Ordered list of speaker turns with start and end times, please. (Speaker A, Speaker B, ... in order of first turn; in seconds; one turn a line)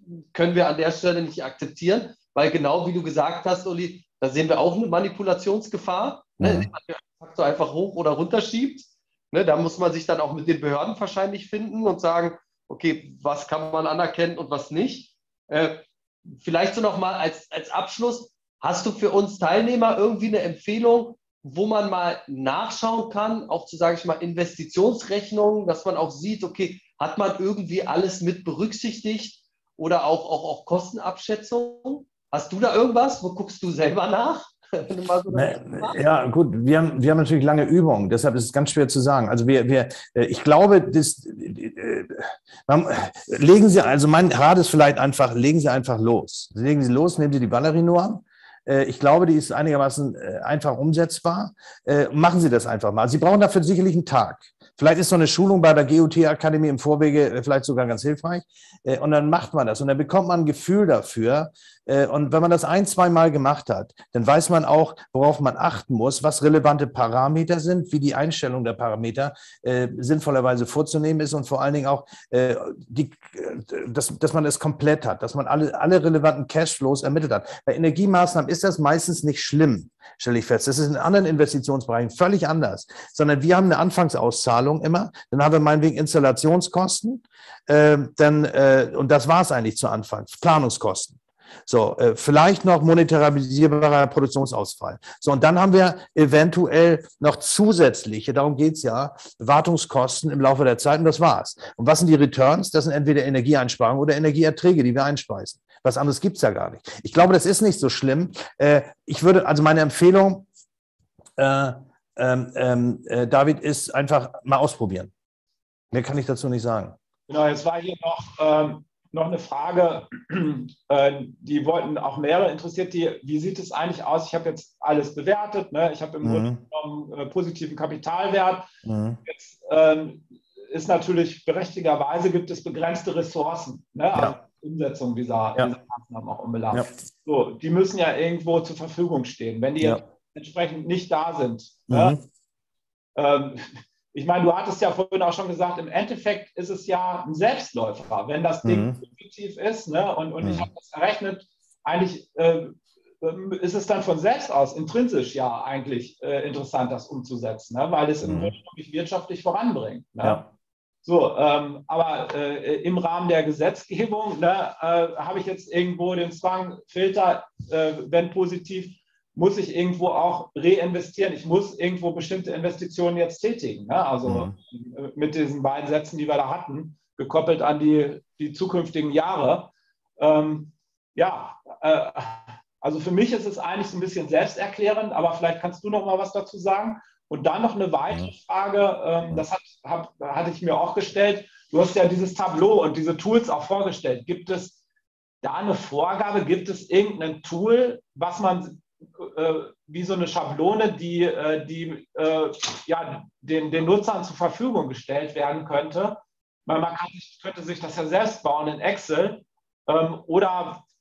Speaker A: 0.3-36.0
Speaker B: 6.4-6.7
Speaker B: 35.3-110.5
Speaker B: 111.4-115.1
Speaker B: 115.9-117.0
Speaker C: 117.3-128.7
Speaker B: 126.2-126.6
Speaker B: 128.8-129.2
Speaker C: 129.2-142.2
Speaker B: 134.1-134.4
Speaker B: 141.9-142.2
Speaker C: 143.2-160.4
Speaker B: 148.6-149.0
Speaker B: 158.2-158.5
Speaker B: 160.2-160.5
Speaker C: 161.0-194.8
Speaker B: 174.2-174.5
Speaker C: 195.4-210.8